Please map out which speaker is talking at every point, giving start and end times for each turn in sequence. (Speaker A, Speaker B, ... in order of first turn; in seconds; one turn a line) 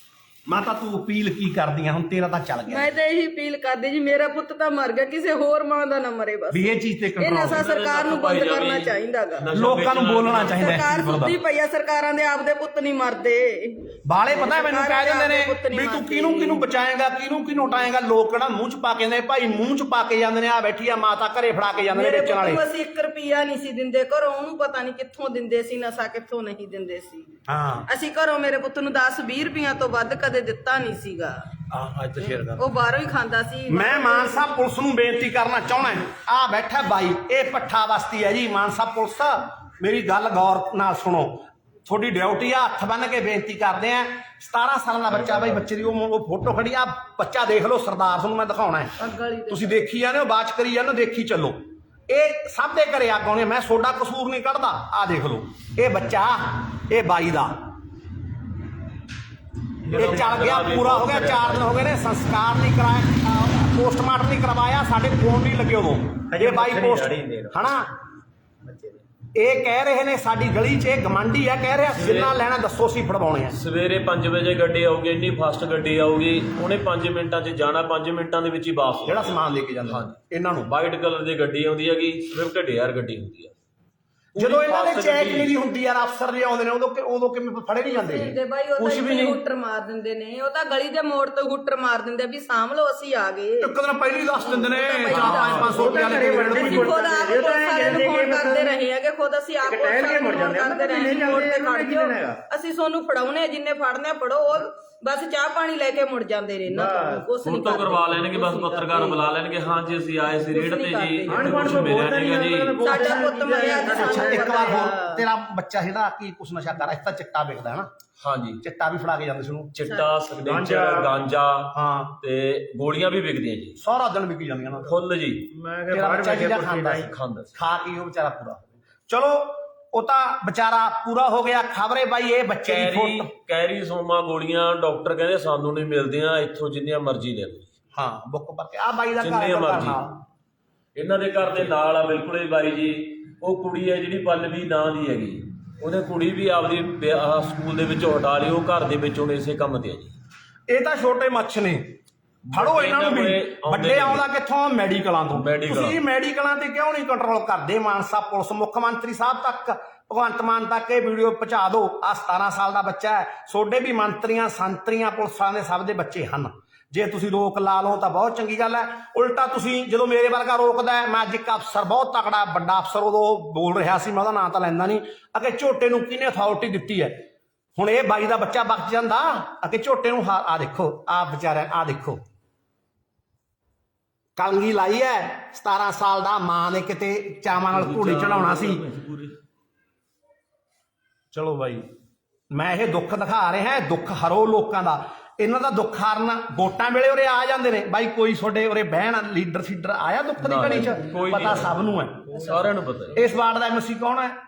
Speaker A: 0.5-2.9
Speaker B: 2.7-9.5
Speaker A: 6.5-7.6
Speaker C: 7.5-11.2
Speaker A: 9.5-11.3
Speaker B: 10.4-16.6
Speaker A: 14.1-22.6
Speaker B: 21.9-27.3
Speaker A: 27.5-27.9
Speaker B: 27.9-31.5
Speaker A: 31.7-32.6
Speaker B: 32.2-34.5
Speaker A: 33.7-49.0
Speaker B: 49.0-49.9
Speaker A: 49.5-57.6
Speaker C: 59.8-61.8
Speaker A: 59.9-67.9
Speaker D: 66.3-67.6
Speaker D: 68.6-69.0
Speaker A: 69.3-73.6
Speaker C: 71.9-72.4
Speaker C: 73.5-83.5
Speaker A: 79.1-80.7
Speaker C: 84.3-85.5
Speaker A: 84.4-89.3
Speaker B: 87.9-109.2
Speaker C: 88.9-89.1
Speaker A: 93.6-97.0
Speaker C: 95.1-95.8
Speaker D: 95.6-98.8
Speaker D: 99.6-102.4
Speaker D: 106.7-107.2
Speaker C: 107.5-113.0
Speaker B: 110.5-111.9
Speaker D: 111.3-114.9
Speaker B: 112.8-115.1
Speaker A: 113.9-117.9
Speaker C: 118.2-118.6
Speaker A: 118.6-119.7
Speaker C: 119.8-123.8
Speaker B: 119.8-120.1
Speaker D: 120.3-121.1
Speaker A: 121.7-122.2
Speaker A: 123.8-125.0
Speaker C: 124.8-125.5
Speaker D: 125.5-127.1
Speaker A: 125.9-133.3
Speaker C: 127.0-127.5
Speaker C: 132.7-137.7
Speaker A: 137.9-140.2
Speaker C: 139.2-140.0
Speaker C: 140.9-150.1
Speaker A: 150.7-152.0
Speaker C: 152.5-154.2
Speaker A: 152.5-177.2
Speaker C: 155.3-156.0
Speaker A: 177.8-182.2
Speaker A: 184.4-188.8
Speaker C: 187.7-189.4
Speaker A: 191.3-191.9
Speaker A: 192.5-204.4
Speaker C: 200.4-201.8
Speaker B: 202.3-202.6
Speaker C: 202.3-203.2